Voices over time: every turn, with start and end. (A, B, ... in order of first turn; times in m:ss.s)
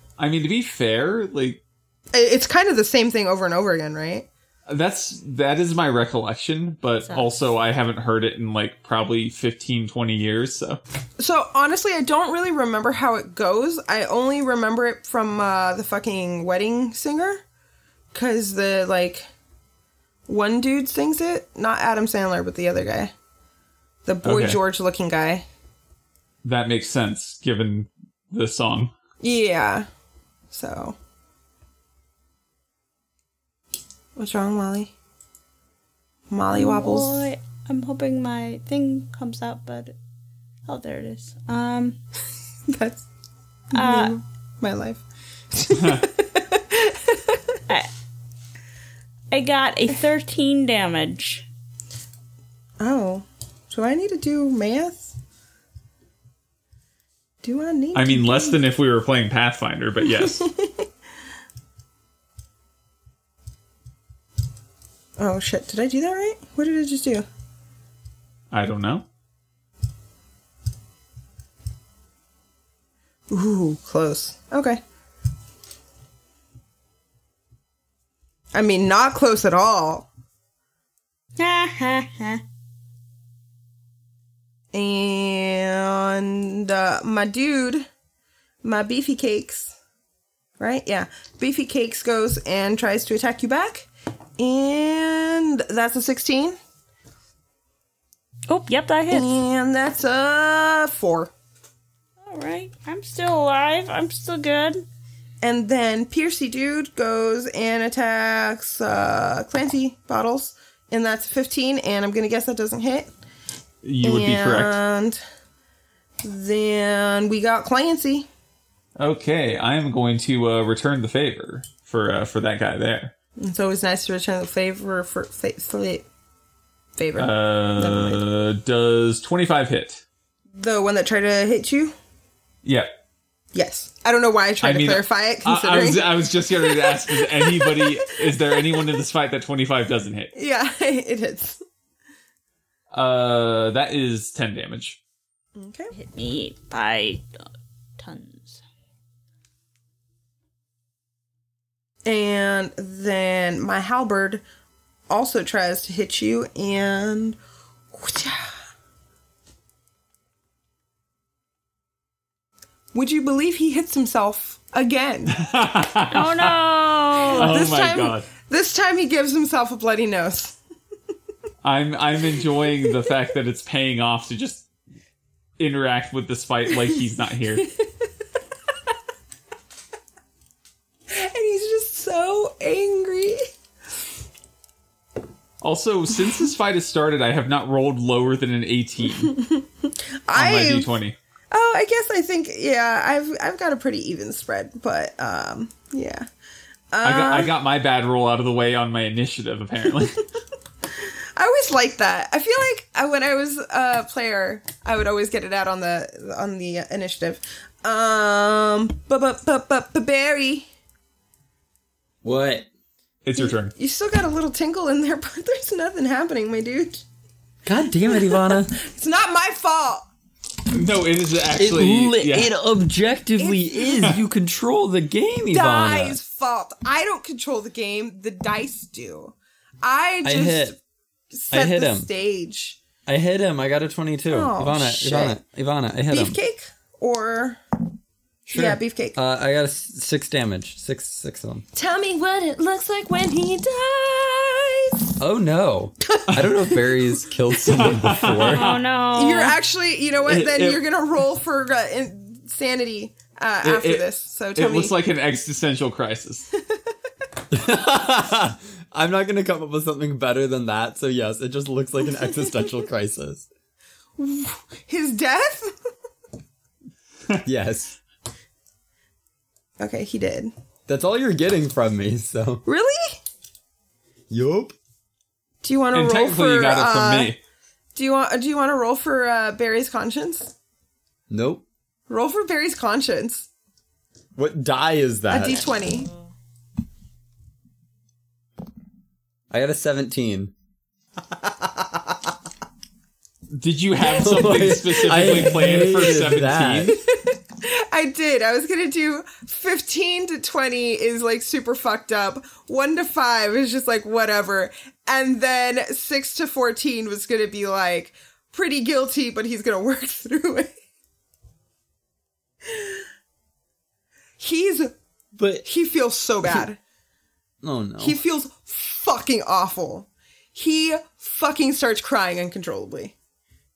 0:00.2-0:01.6 A
0:02.1-0:04.3 B
0:04.7-0:10.8 A
0:11.2-0:17.4 B
0:18.1-0:19.3 B
0:20.3-0:23.1 B
0:24.0-0:25.4 B
0:24.2-0:24.6 A
0:26.4-0:28.9 A
0:29.2-0:29.9 B
0:30.5-0:31.0 B
0:34.2-0:34.9 B
0:36.3-0:37.3 B
0:36.5-0:40.0 C
0:40.7-0:42.0 C
0:42.7-0:43.0 B
0:43.7-0:44.2 C
0:43.7-0:47.6 B
0:45.7-0:46.1 A
0:49.3-0:51.5 C
0:52.8-0:55.2 B
0:57.4-0:58.6 B
0:57.9-1:00.5 A
1:00.1-1:00.9 B
1:05.2-1:07.3 B
1:08.5-1:09.0 A
1:13.3-1:14.8 B
1:18.5-1:20.1 B
1:21.4-1:22.4 C
1:24.7-1:27.9 B
1:28.6-1:29.8 B
1:30.6-1:36.6 B
1:38.5-1:39.4 C
1:39.1-1:41.3 B
1:42.2-1:44.8 C
1:45.4-1:53.1 B
1:53.8-1:54.8 A
1:54.0-1:55.2 B
1:56.2-1:58.3 B
1:59.0-2:03.1 A
2:03.4-2:06.1 B
2:07.0-2:08.2 B
2:07.2-2:10.0 A
2:10.6-2:11.9 B
2:12.6-2:12.9 A
2:13.5-2:18.1 B
2:14.6-2:20.3 A
2:20.4-2:21.6 B
2:22.9-2:25.0 A
2:25.6-2:25.9 B
2:25.9-2:27.2 C
2:28.0-2:28.6 C
2:32.0-2:34.4 B
2:35.1-2:37.4 B
2:37.9-2:38.6 B
2:42.9-2:45.4 B
2:45.3-2:46.6 A
2:46.1-2:47.6 C
2:47.2-2:48.3 A
2:47.3-2:50.6 B
2:51.6-2:54.7 A
2:55.6-2:57.7 A
3:01.1-3:03.4 B
3:05.6-3:09.4 A
3:09.2-3:10.9 B
3:10.3-3:11.2 A
3:11.5-3:16.3 B
3:16.9-3:17.5 B
3:17.0-3:20.2 A
3:20.9-3:30.7 B
3:32.2-3:32.7 D
3:33.2-3:33.7 A
3:33.4-3:37.0 B
3:37.7-3:38.8 D
3:38.1-3:40.1 B
3:40.7-3:42.5 A
3:41.6-3:46.2 D
3:43.4-3:44.1 B
3:45.5-3:50.8 B
3:50.2-3:50.8 D
3:51.3-3:52.8 B
3:51.5-3:52.1 D
3:53.1-3:56.4 D
3:54.3-3:55.4 B
3:56.1-3:57.6 B
3:58.5-4:01.6 D
3:58.5-3:59.2 B
4:01.7-4:05.0 B
4:05.2-4:08.6 D
4:06.1-4:07.0 B
4:07.7-4:08.8 A
4:08.5-4:09.6 C
4:09.2-4:15.0 B
4:10.3-4:10.7 A
4:13.6-4:16.5 A
4:17.5-4:23.5 D
4:24.2-4:25.8 B
4:27.4-4:28.0 D
4:29.8-4:30.5 B
4:30.9-4:32.6 D
4:32.6-4:33.2 B
4:34.3-4:34.8 D
4:35.6-4:37.3 B
4:35.9-4:37.4 A
4:38.0-4:40.6 B
4:41.3-4:41.6 D
4:42.1-4:43.5 B
4:44.4-4:45.7 D
4:45.3-4:46.1 B
4:49.5-4:50.5 D
4:53.5-4:57.0 A
4:54.1-4:57.0 D
4:57.0-5:10.7 B
5:12.6-5:13.1 B
5:14.4-5:15.0 B
5:15.4-5:15.7 D
5:15.6-5:16.8 B
5:17.6-5:18.2 D
5:18.0-5:23.1 B